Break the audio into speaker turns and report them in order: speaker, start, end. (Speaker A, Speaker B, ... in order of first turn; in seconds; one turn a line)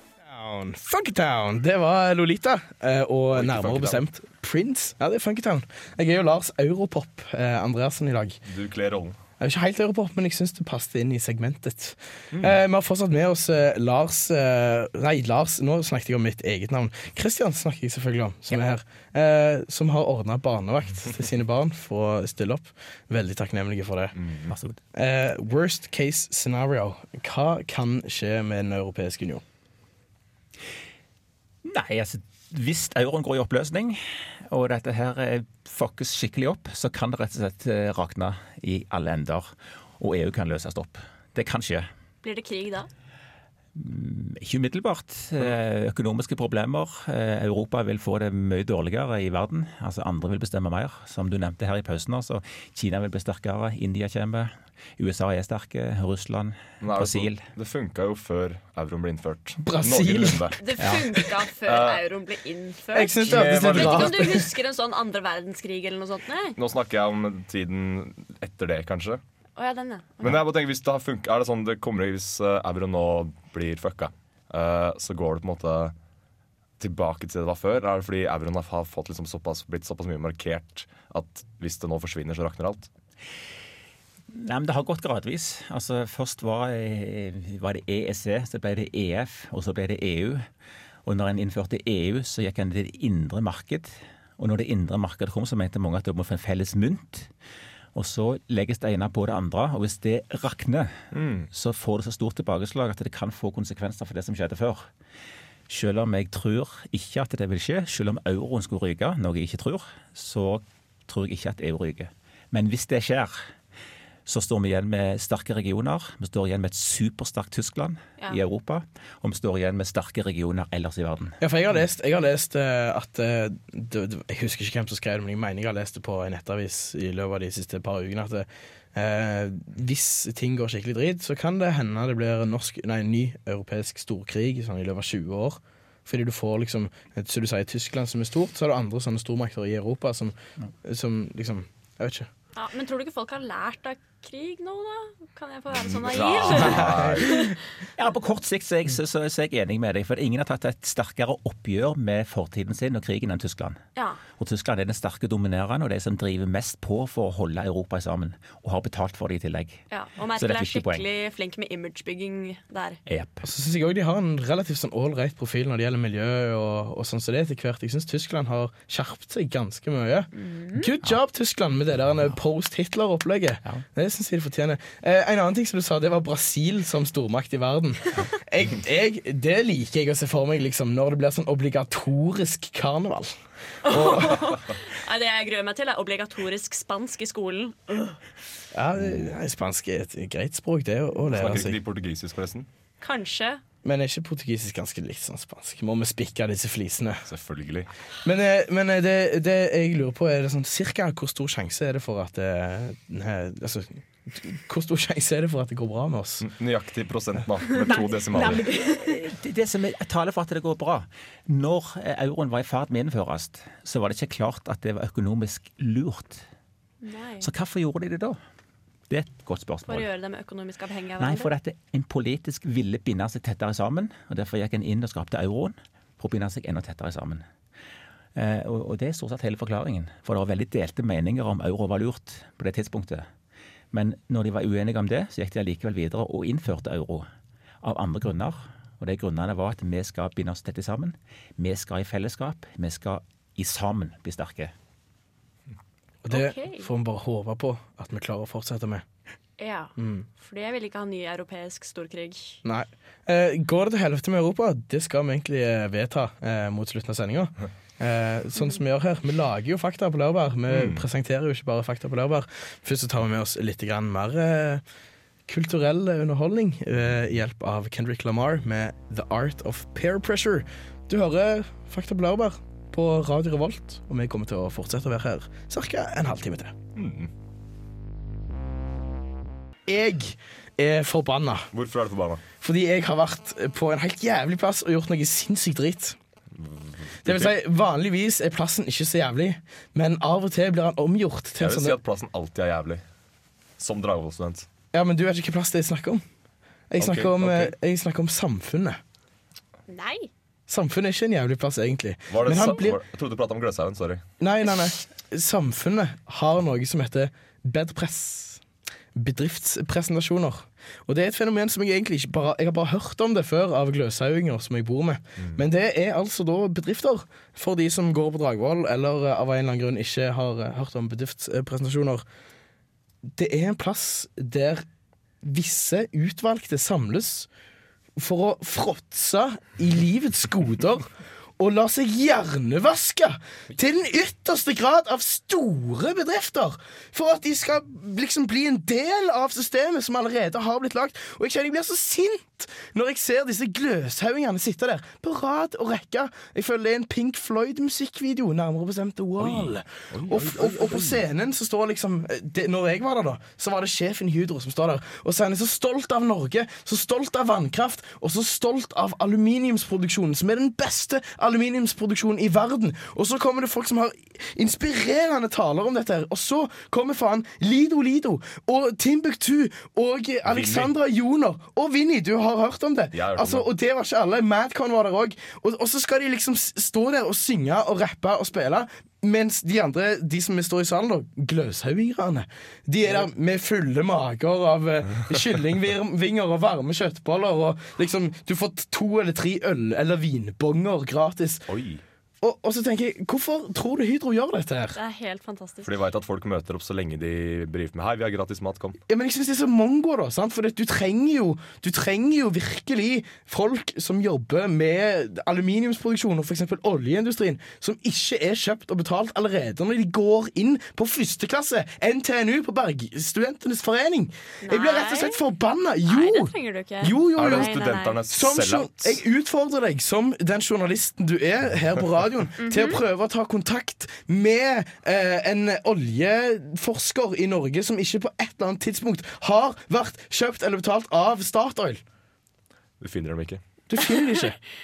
Speaker A: 0.2-8.4
Speaker B: 3.3-4.0
Speaker B: 8.4-9.2
Speaker A: 9.4-24.1
Speaker B: 24.2-24.5
Speaker C: 24.5-24.8
Speaker A: 24.9-29.4
Speaker C: 31.6-41.9
Speaker D: 42.2-42.9
Speaker C: 43.7-57.4
Speaker B: 56.8-60.6
Speaker A: 59.6-60.5
Speaker D: 60.6-66.6
Speaker C: 60.8-61.0
Speaker B: 61.6-62.0
Speaker A: 62.9-64.5
Speaker B: 63.2-64.3
Speaker B: 66.6-69.2
Speaker D: 69.6-70.4
Speaker B: 70.2-75.9
Speaker B: 76.8-82.9
Speaker C: 84.3-90.5
Speaker C: 91.0-97.3
Speaker C: 97.9-104.9
Speaker B: 101.1-101.5
Speaker C: 105.7-113.5
Speaker C: 114.2-121.4
Speaker A: 121.4-142.3
Speaker D: 142.6-147.6
Speaker B: 145.7-147.3
Speaker A: 146.7-147.3
Speaker C: 148.0-153.8
Speaker C: 154.4-159.8
Speaker D: 159.9-163.0
Speaker C: 160.3-161.1
Speaker C: 163.1-163.5
Speaker A: 163.4-183.3
Speaker D: 170.3-170.9
Speaker D: 183.8-188.2
Speaker A: 183.8-184.6
Speaker A: 188.7-191.8
Speaker B: 191.3-192.7
Speaker D: 193.0-193.6
Speaker A: 193.8-197.2
Speaker B: 197.3-197.9
Speaker A: 198.2-206.4
Speaker B: 206.4-208.6
Speaker C: 207.8-216.4
Speaker D: 208.4-209.1
Speaker D: 217.0-217.5
Speaker C: 217.4-218.4
Speaker C: 219.1-220.1
Speaker D: 219.9-221.5
Speaker C: 221.2-227.4
Speaker C: 228.3-233.2
Speaker C: 233.9-237.2
Speaker C: 237.8-244.7
Speaker A: 246.2-249.0
Speaker D: 246.3-246.9
Speaker D: 249.6-252.6
Speaker A: 250.0-250.3
Speaker A: 252.6-264.8
Speaker B: 260.7-261.0
Speaker A: 265.5-276.7
Speaker B: 276.9-277.3
Speaker A: 279.9-281.7
Speaker B: 281.7-282.4
Speaker A: 282.6-286.1
Speaker B: 286.6-287.5
Speaker A: 287.2-292.0
Speaker B: 291.6-293.0
Speaker B: 293.8-294.7
Speaker A: 294.9-296.2
Speaker A: 296.9-299.0
Speaker B: 297.0-297.7
Speaker D: 299.9-300.3
Speaker A: 300.7-303.0
Speaker B: 302.3-304.2
Speaker A: 304.4-308.6
Speaker A: 309.1-322.2
Speaker A: 323.4-324.8
Speaker A: 325.4-327.5
Speaker A: 328.2-391.6
Speaker B: 349.4-351.2
Speaker B: 370.4-370.9
Speaker B: 373.1-373.7
Speaker B: 391.7-392.0
Speaker A: 392.4-395.0
Speaker D: 394.9-395.9
Speaker B: 395.8-399.0
Speaker A: 399.1-417.7
Speaker D: 414.6-415.4
Speaker D: 416.1-418.2
Speaker B: 417.4-419.2
Speaker A: 418.3-432.0
Speaker D: 422.6-423.0
Speaker B: 433.0-433.6
Speaker A: 433.9-434.6
Speaker D: 434.0-434.4